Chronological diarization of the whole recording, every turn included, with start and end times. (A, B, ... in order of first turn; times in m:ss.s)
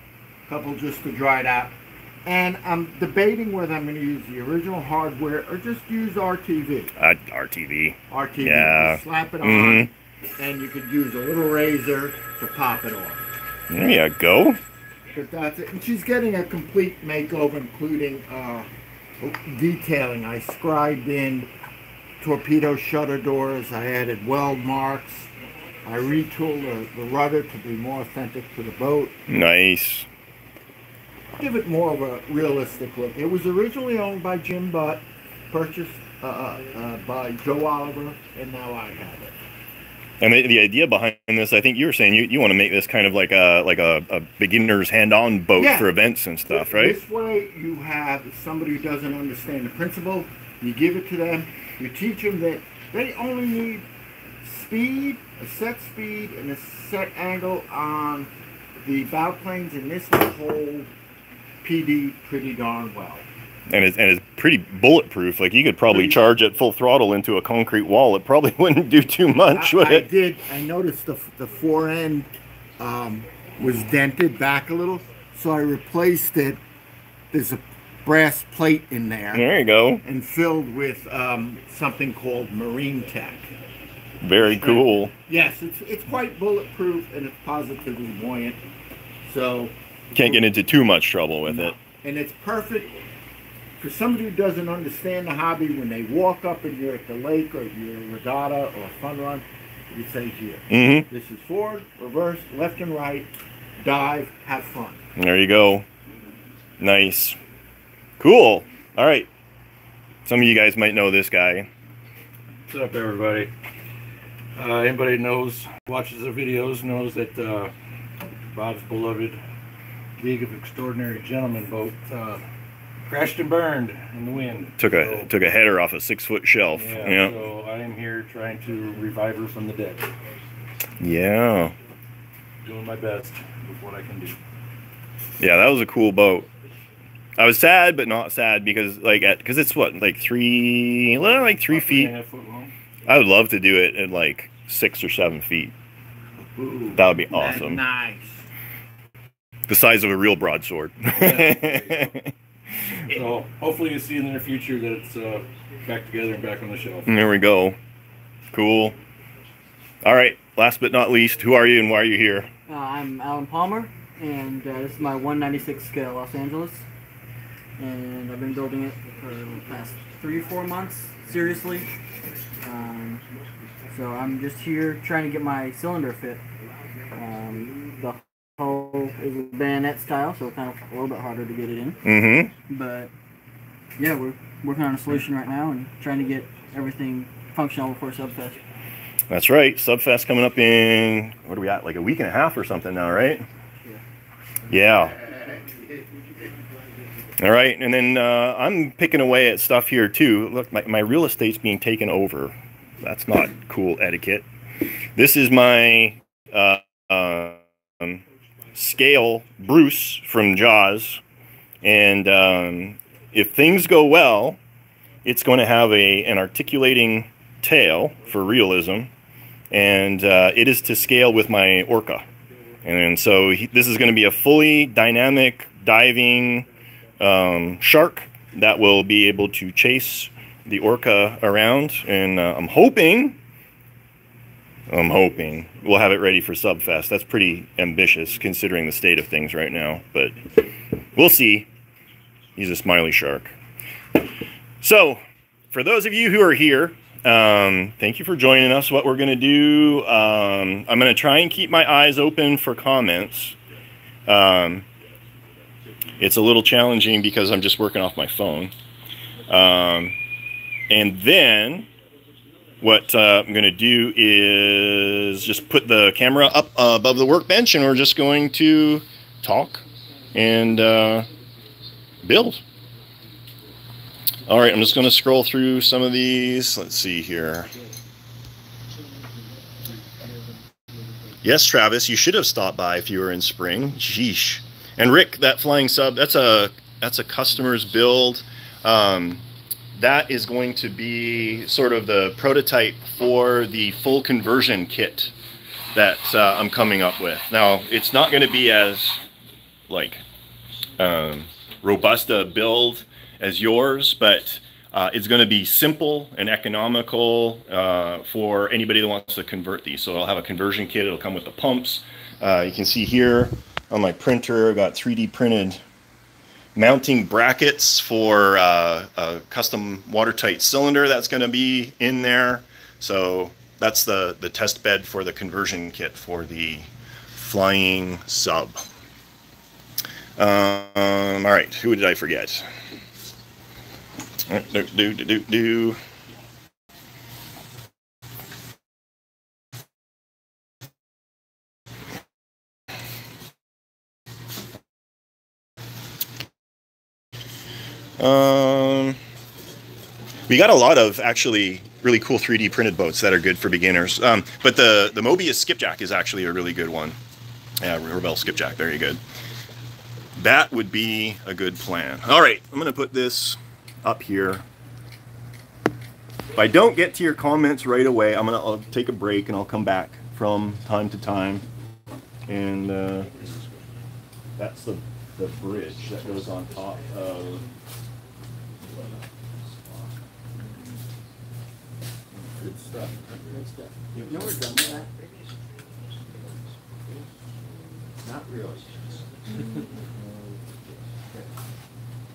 0:00.5-0:06.9 A
0:07.0-0:09.9 B
0:08.1-0:13.2 A
0:13.7-0:14.6 B
0:15.1-0:21.5 A
0:22.2-0:25.3 A
0:25.8-0:29.2 A
0:29.3-0:30.1 B
0:31.3-0:39.4 A
0:40.2-0:47.0 B
0:45.6-0:45.9 A
0:46.5-0:53.9 A
0:54.4-0:58.3 A
0:58.8-1:00.9 A
1:01.6-1:03.2 A
1:03.7-1:10.0 B
1:05.9-1:06.2 A
1:09.5-1:16.6 A
1:17.3-1:19.5 A
1:19.3-1:20.0 B
1:20.0-1:23.6 A
1:24.2-1:25.1 B
1:24.4-1:28.6 A
1:29.2-1:29.7 A
1:30.1-1:31.8 B
1:31.5-1:33.0 A
1:33.8-1:45.0 A
1:40.7-1:41.1 B
1:45.2-1:45.8 B
1:46.8-1:47.4 B
1:48.2-1:49.3 B
1:50.2-1:51.7 B
1:52.7-1:53.5 C
1:54.6-1:57.7 C
1:58.5-1:59.4 C
2:00.2-2:02.4 C
2:03.0-2:05.3 C
2:04.8-2:07.3 B
2:06.7-2:10.1 C
2:11.0-2:11.7 B
2:12.6-2:14.4 C
2:15.4-2:16.5 B
2:17.4-2:22.1 B
2:21.7-2:22.7 C
2:23.0-2:25.7 B
2:26.6-2:28.4 A
2:26.9-2:27.8 B
2:29.7-2:32.3 B
2:31.1-2:32.1 C
2:33.1-2:37.1 C
2:37.0-2:37.8 B
2:38.5-2:39.0 B
2:40.0-2:42.5 B
2:42.7-2:46.8 D
2:47.8-2:51.9 D
2:52.6-2:53.2 D
2:53.9-2:56.4 D
2:57.1-3:02.0 D
3:02.0-3:02.5 B
3:02.7-3:03.1 D
3:04.0-3:08.6 D
3:09.3-3:13.5 B
3:14.7-3:15.2 B
3:14.7-3:16.3 A
3:17.4-3:24.4 B
3:25.1-3:28.2 B
3:28.8-3:31.2 B
3:31.8-3:34.6 B
3:35.2-3:39.1 B
3:39.7-3:42.2 B
3:42.8-3:46.7 B
3:47.2-3:53.4 B
3:54.9-4:01.7 B
4:02.6-4:03.6 B
4:04.8-4:13.6 B
4:14.3-4:14.8 B
4:16.2-4:18.7 B
4:19.5-4:20.2 B
4:20.9-4:21.9 B
4:22.8-4:31.3 B
4:32.2-4:32.6 B
4:34.4-4:37.7 B
4:41.4-4:55.3 B
4:55.9-4:59.2 B
4:59.9-5:00.2 B
5:01.0-5:15.8 B
5:16.8-5:28.8 B
5:30.4-5:32.7 B
5:34.5-5:36.0 B
5:48.2-5:49.2 B
5:50.5-5:57.2 B
5:57.8-5:59.2 B
6:00.4-6:04.6 B
6:06.5-6:11.6 B
6:12.5-6:13.3 B
6:14.6-6:17.6 B
6:22.3-6:23.6 A
6:23.5-6:25.1 D
6:24.1-6:24.6 B
6:24.2-6:24.6 A
6:28.2-6:30.6 A
6:31.2-6:31.6 A